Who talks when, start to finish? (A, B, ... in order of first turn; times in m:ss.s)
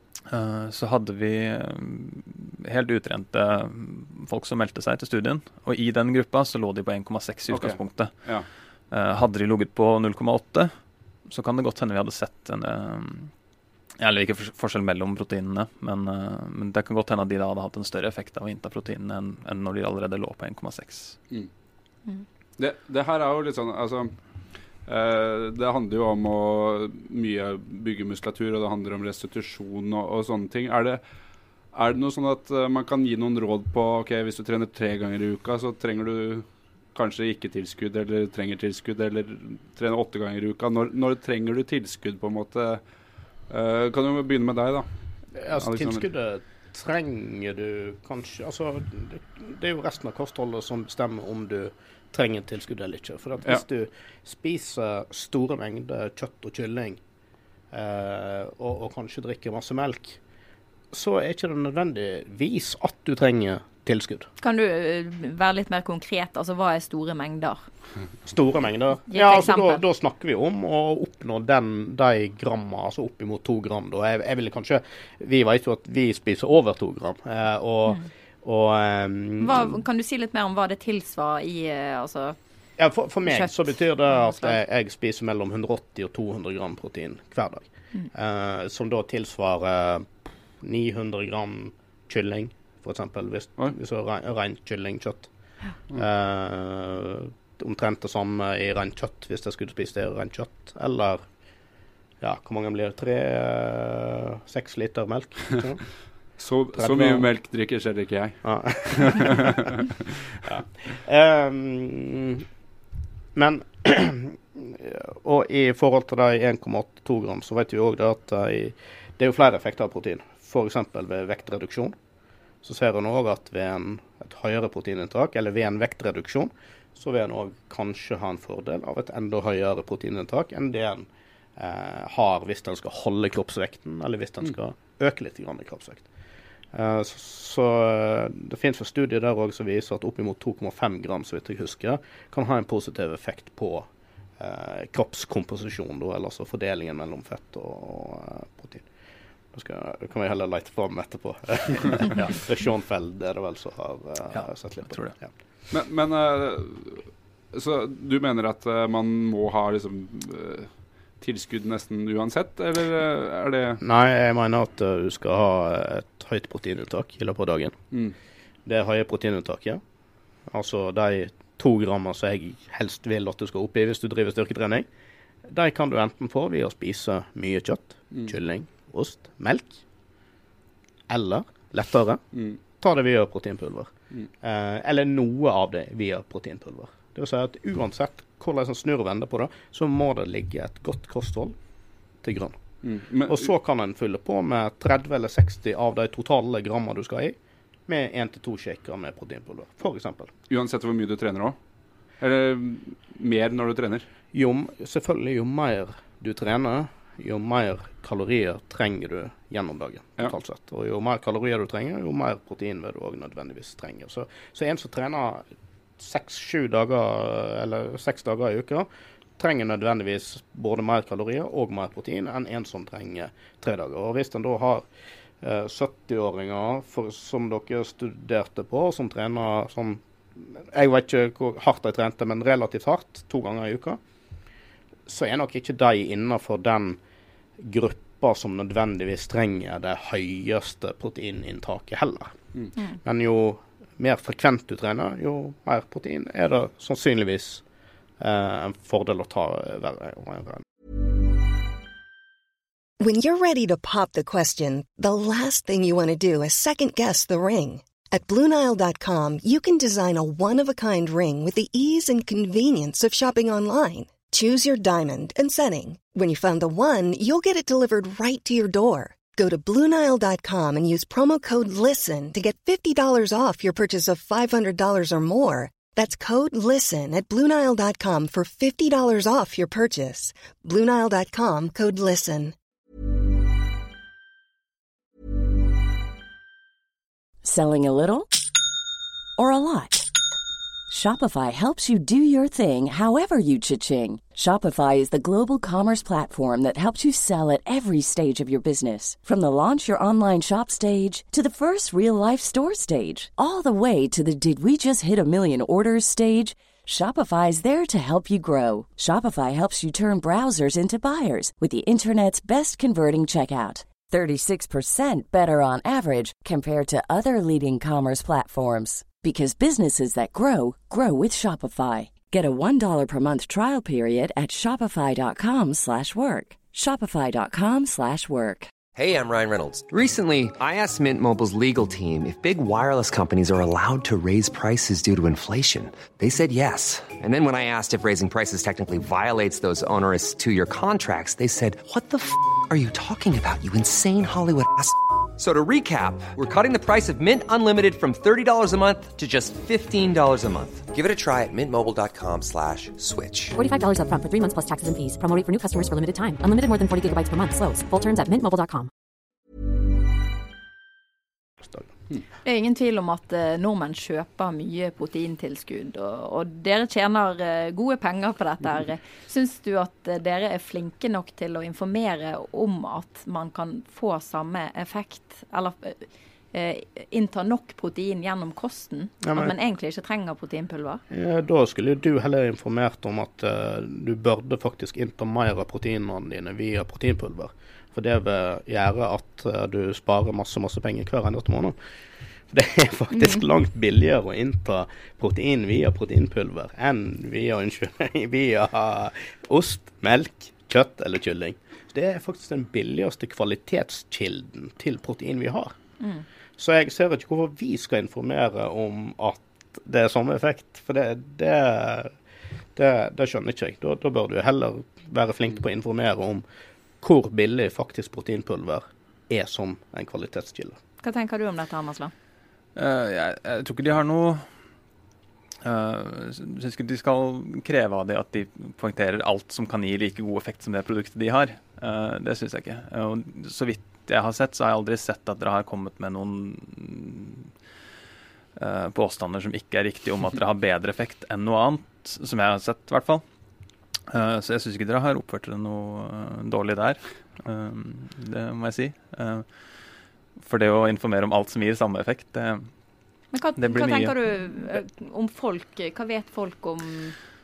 0:00.3-0:08.2 A
0:07.5-0:08.4 B
0:08.9-0:10.8 A
0:11.3-0:13.3 A
0:14.0-0:21.2 A
0:22.6-0:24.2 B
0:24.9-0:31.0 B
0:31.7-0:42.8 B
0:43.5-0:44.9 B
0:45.4-0:57.0 C
0:45.5-0:46.0 B
0:57.7-1:00.2 C
1:00.9-1:04.3 C
1:04.4-1:07.6 D
1:08.2-1:19.8 C
1:09.1-1:09.8 D
1:19.4-1:22.4 D
1:22.8-1:35.3 C
1:23.2-1:24.6 D
1:35.9-1:41.2 C
1:42.2-1:45.9 C
1:46.4-1:49.9 B
1:46.7-1:47.3 C
1:48.4-1:49.4 C
1:50.4-1:52.4 C
1:53.3-2:01.9 C
2:02.6-2:16.1 C
2:16.7-2:28.9 C
2:29.5-2:35.3 C
2:34.3-2:35.2 A
2:35.7-2:43.8 B
2:43.8-2:47.8 C
2:48.6-2:49.8 C
2:50.5-2:54.9 C
2:55.4-2:59.8 C
3:01.1-3:02.2 C
3:02.3-3:02.6 B
3:02.7-3:11.6 C
3:12.2-3:12.6 C
3:12.8-3:13.5 B
3:13.2-3:20.3 C
3:20.5-3:21.6 B
3:22.2-3:24.0 B
3:24.3-3:35.5 C
3:36.0-3:44.8 C
3:45.4-3:54.0 C
3:55.1-3:57.0 C
3:57.6-4:02.4 C
4:03.0-4:07.6 C
4:08.2-4:10.6 C
4:13.0-4:42.5 E
4:47.4-4:48.3 F
4:49.4-4:50.1 F
4:50.9-5:28.7 F
5:28.9-5:53.6 G
5:53.5-5:58.9 H
6:01.6-6:01.9 C
6:02.4-6:21.0 D
6:19.2-6:19.5 C
6:21.1-6:31.8 C
6:32.5-6:45.7 C
6:46.0-6:46.2 D
6:46.6-6:52.1 C
6:52.8-6:56.4 C
6:57.0-7:00.8 C
7:01.0-7:02.1 D
7:02.8-7:04.4 A
7:05.6-7:17.5 A
7:18.6-7:23.2 A
7:24.1-7:29.4 A
7:30.4-7:32.7 A
7:33.3-7:37.2 D
7:33.6-7:34.2 A